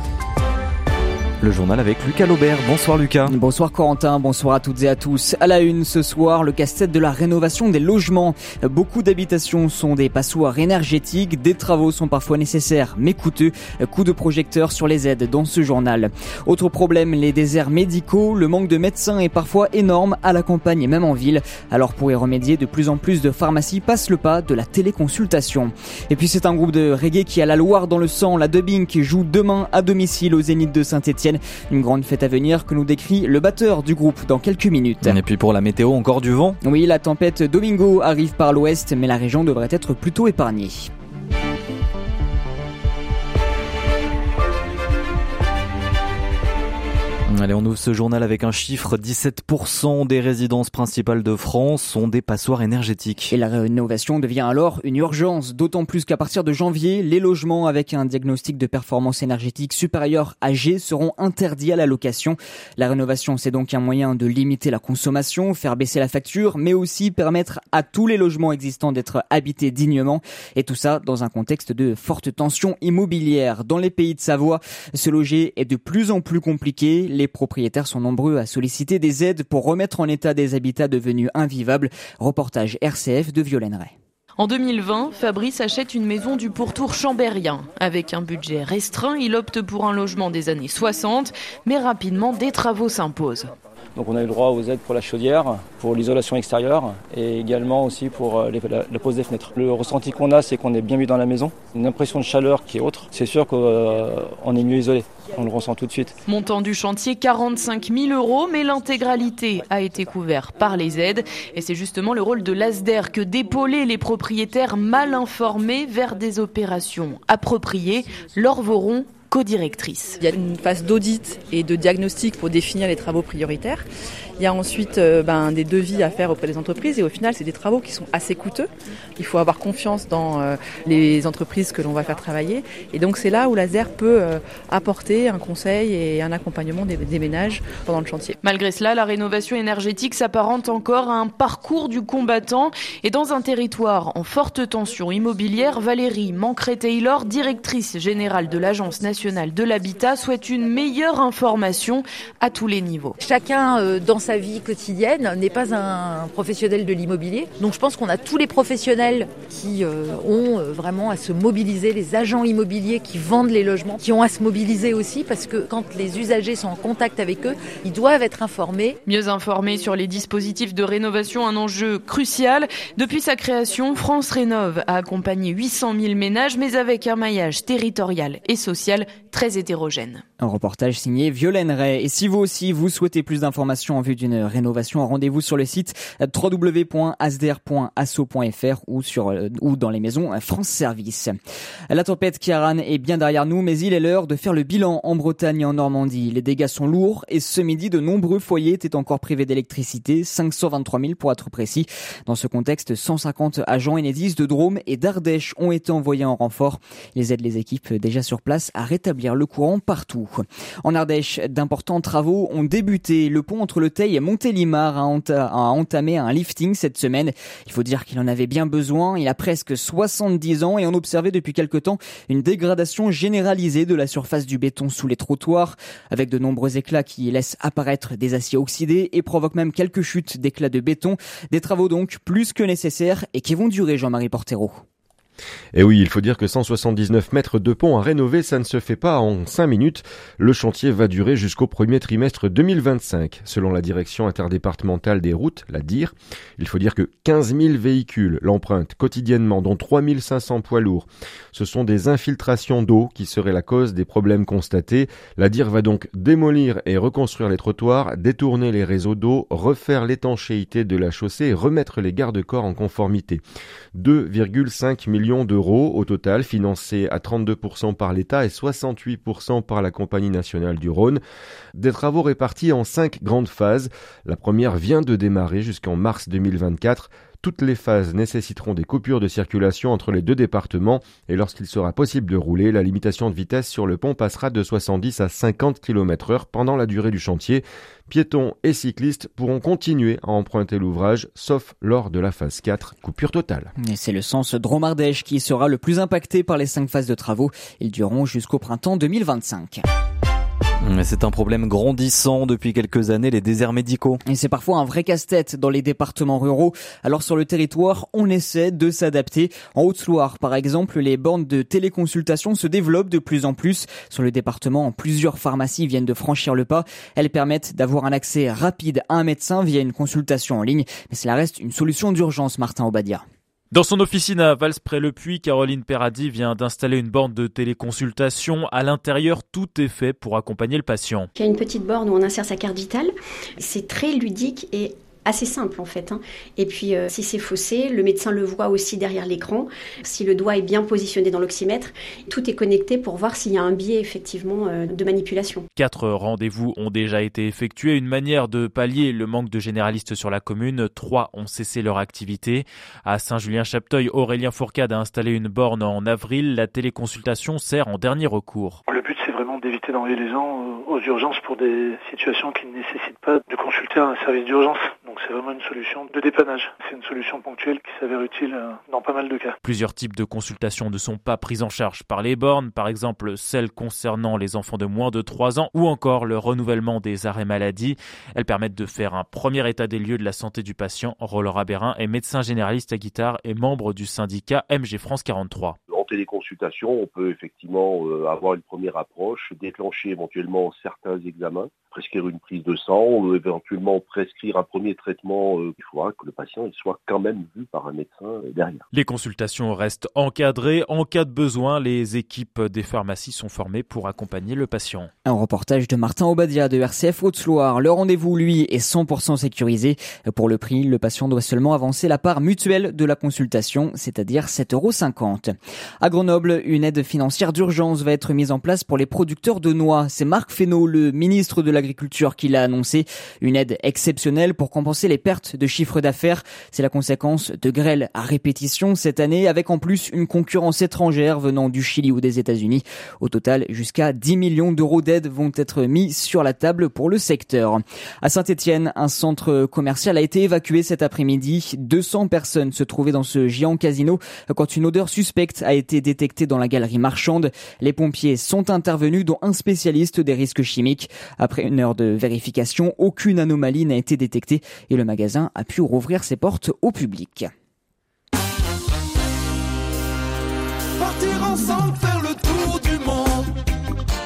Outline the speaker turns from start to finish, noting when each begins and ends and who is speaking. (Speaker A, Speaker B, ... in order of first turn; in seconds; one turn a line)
Speaker A: 1.4-3.3
Speaker B: 3.3-35.2
Speaker A: 35.0-36.6
Speaker B: 36.6-40.9
Speaker A: 47.3-53.3
Speaker B: 53.3-83.9
Speaker C: 84.4-93.5
Speaker D: 94.0-106.2
Speaker C: 106.2-120.2
Speaker E: 120.2-123.8
Speaker E: 124.4-138.4
Speaker C: 138.4-153.2
Speaker F: 153.2-168.9
Speaker C: 169.1-180.2
Speaker B: 180.4-191.3
Speaker B: 191.9-234.8
Speaker G: 235.7-263.4
Speaker G: 263.9-271.2
Speaker G: 271.7-293.7
Speaker B: 293.8-299.8
Speaker A: 300.8-304.2
Speaker B: 304.2-323.2
Speaker H: 323.7-331.3
Speaker I: 331.4-345.6
Speaker H: 345.8-358.8
Speaker J: 358.9-369.6
Speaker H: 369.6-385.8
Speaker K: 385.9-398.9
Speaker H: 398.9-405.1
Speaker B: 405.2-457.5
Speaker J: 462.3-463.1